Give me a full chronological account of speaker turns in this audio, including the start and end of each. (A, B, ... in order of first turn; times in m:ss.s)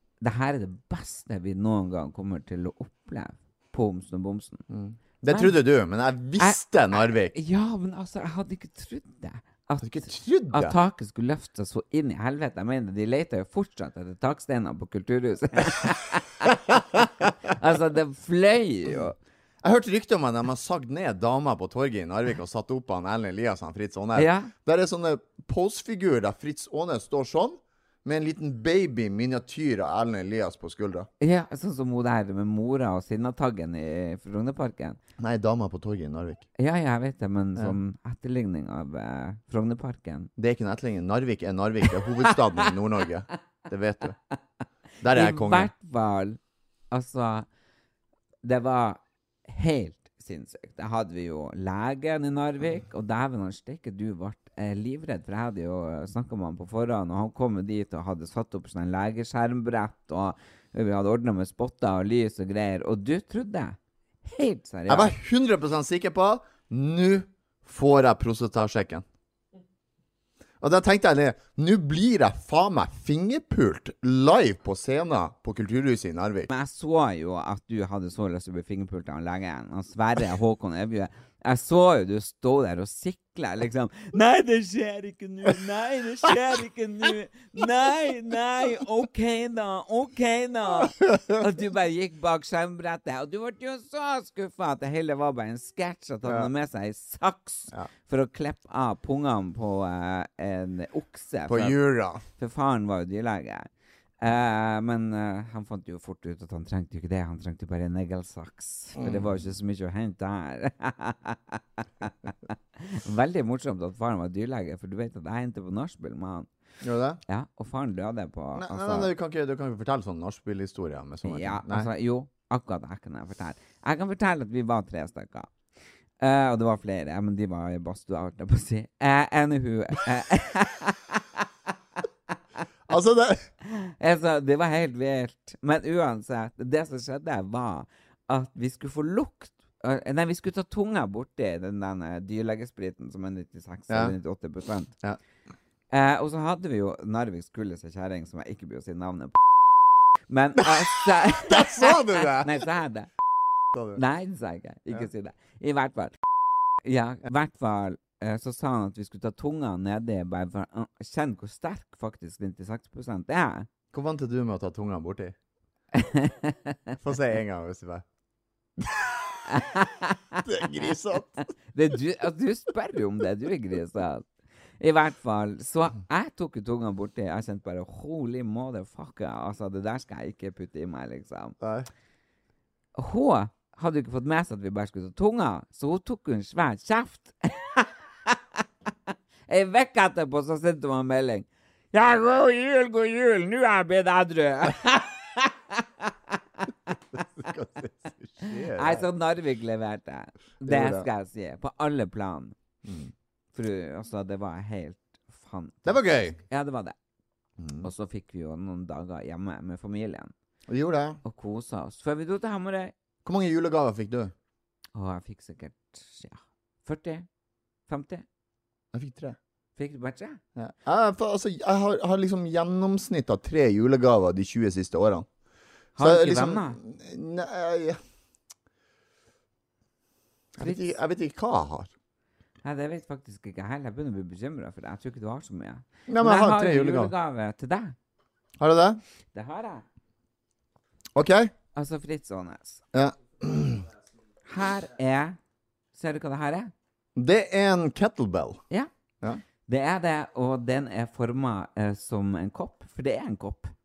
0:00.2-0:04.6 A
0:04.7-0:07.3 B
0:05.3-0:05.6 A
0:06.4-0:19.2 A
0:09.8-0:10.8 B
0:16.7-0:17.2 B
0:19.6-0:31.1 B
0:24.1-0:24.5 A
0:31.2-0:35.0 A
0:35.2-0:36.4 B
0:36.6-0:40.3 A
0:40.4-0:44.2 B
0:45.0-0:45.7 B
0:45.1-0:46.4 A
0:46.9-0:47.5 A
0:48.4-1:05.1 A
1:04.9-1:09.0 B
1:10.6-1:16.5 B
1:16.5-1:41.8 A
1:30.8-1:31.4 B
1:36.2-1:36.5 B
1:41.5-1:42.2 B
1:42.4-1:43.7 A
1:44.2-1:56.5 A
1:49.0-1:49.5 B
1:56.8-1:57.2 B
1:57.3-1:59.1 A
1:58.5-2:01.9 B
2:01.2-2:05.5 A
2:06.2-2:11.4 A
2:12.9-2:13.5 B
2:13.6-2:24.9 A
2:23.9-2:24.2 B
2:25.9-2:29.4 A
2:30.3-2:33.1 A
2:30.6-2:32.6 B
2:33.7-2:34.0 B
2:33.9-2:36.2 A
2:36.8-2:43.7 A
2:43.9-2:45.4 B
2:45.9-2:46.9 A
2:47.0-2:48.0 B
2:48.8-2:49.4 B
2:49.5-2:50.9 A
2:50.4-2:51.4 B
2:51.7-2:54.2 A
2:54.8-3:01.6 A
3:01.6-3:01.9 B
3:02.9-3:08.4 A
3:09.5-3:16.9 A
3:17.1-3:19.0 B
3:18.4-3:22.5 A
3:20.6-3:21.1 B
3:22.8-3:23.1 B
3:23.5-3:27.0 A
3:25.8-3:26.4 B
3:27.6-3:27.9 B
3:27.8-3:30.3 A
3:30.7-3:31.2 B
3:31.2-3:32.9 A
3:33.2-3:34.3 B
3:34.9-3:37.3 A
3:37.9-3:38.2 A
3:38.9-3:39.4 B
3:39.8-3:40.4 A
3:40.6-3:45.3 B
3:46.0-3:46.8 A
3:46.0-3:48.0 B
3:50.6-3:51.9 B
3:50.6-3:50.9 A
3:52.6-3:57.9 A
3:56.1-3:57.1 B
3:58.6-3:59.0 B
3:59.3-3:59.8 A
4:01.1-4:01.5 B
4:01.8-4:02.8 A
4:02.9-4:03.8 B
4:04.4-4:05.4 A
4:05.9-4:06.7 A
4:07.2-4:08.6 B
4:09.7-4:13.7 A